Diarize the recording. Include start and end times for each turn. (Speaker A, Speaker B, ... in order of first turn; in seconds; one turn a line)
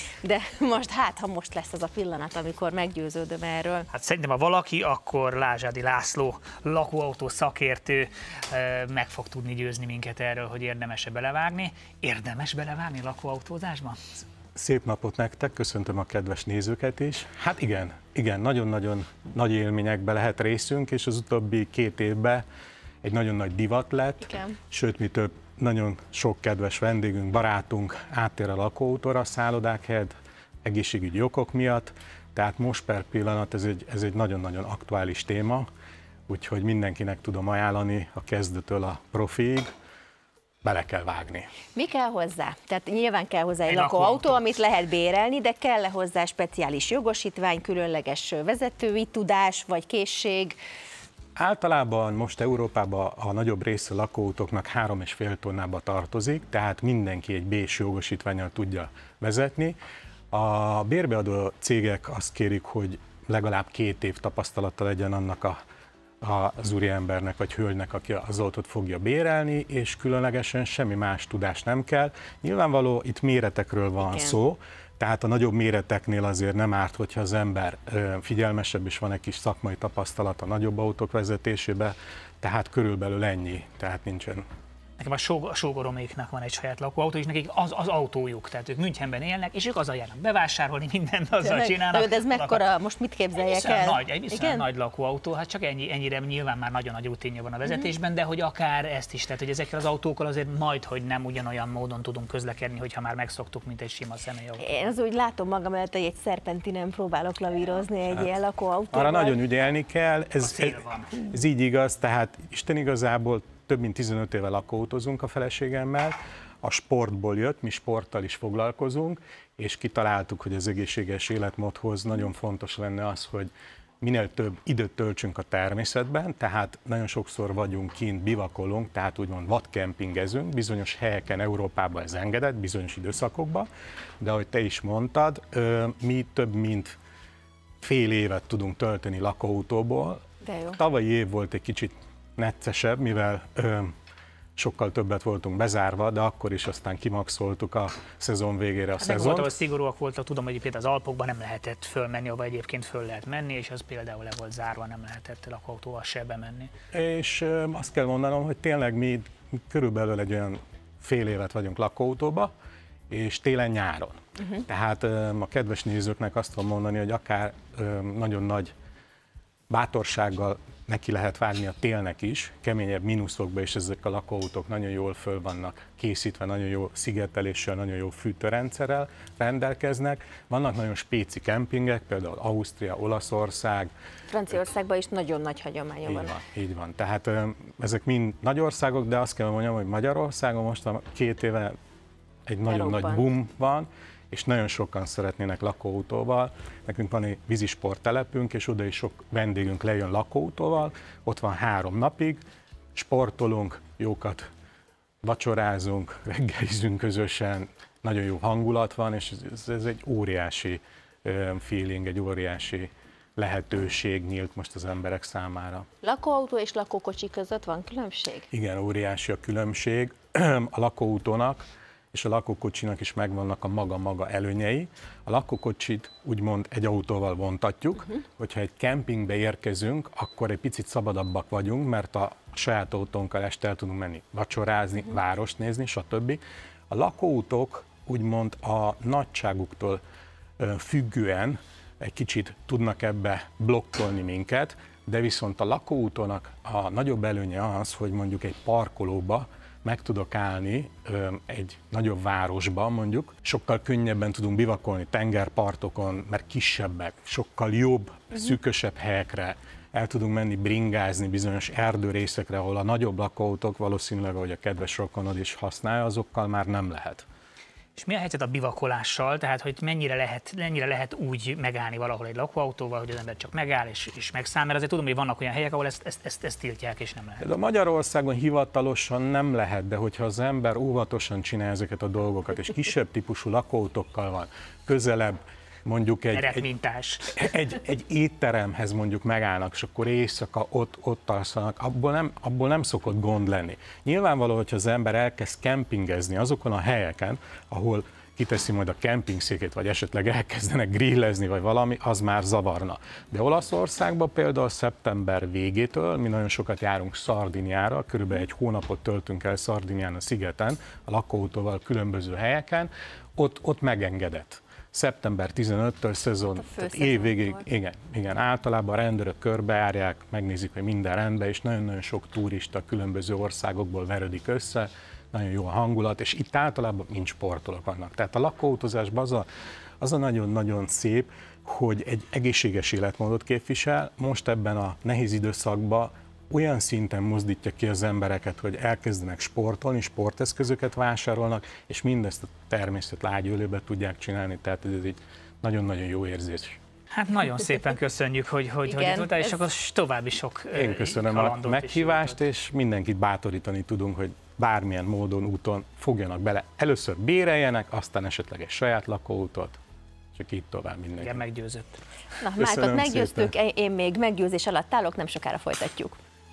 Speaker A: 0.2-3.9
Speaker B: 3.9-14.2
Speaker C: 14.6-22.4
Speaker C: 23.0-35.7
Speaker C: 36.3-39.7
Speaker C: 40.6-41.5
Speaker A: 41.8-50.6
Speaker B: 43.7-44.4
Speaker C: 51.4-59.8
Speaker C: 60.3-65.6
Speaker C: 66.2-84.5
Speaker A: 74.0-74.4
Speaker B: 85.0-92.7
Speaker A: 91.4-94.7
Speaker B: 93.4-104.8
Speaker A: 97.7-97.9
Speaker A: 104.6-109.4
Speaker C: 108.9-133.7
Speaker B: 110.6-111.2
Speaker C: 134.2-137.0
Speaker C: 137.8-140.2
Speaker A: 140.4-140.8
Speaker C: 140.7-143.9
Speaker C: 144.6-149.5
Speaker B: 149.0-156.7
Speaker C: 156.9-162.5
Speaker C: 163.1-168.7
Speaker C: 169.7-183.9
Speaker A: 184.3-186.4
Speaker C: 186.1-191.7
Speaker C: 192.5-202.4
Speaker A: 192.7-193.3
Speaker C: 202.9-204.5
Speaker C: 205.2-215.9
Speaker A: 216.0-218.5
Speaker C: 218.5-240.0
Speaker C: 240.6-267.2
Speaker B: 268.0-277.5
Speaker C: 277.4-286.7
Speaker B: 286.3-287.4
Speaker C: 287.3-329.5
Speaker A: 316.7-317.4
Speaker C: 330.0-346.8
Speaker B: 347.1-352.4
Speaker A: 348.9-349.6
Speaker C: 350.7-359.8
Speaker C: 360.3-361.4
Speaker B: 361.2-362.0
Speaker A: 362.4-366.2
Speaker C: 362.6-363.5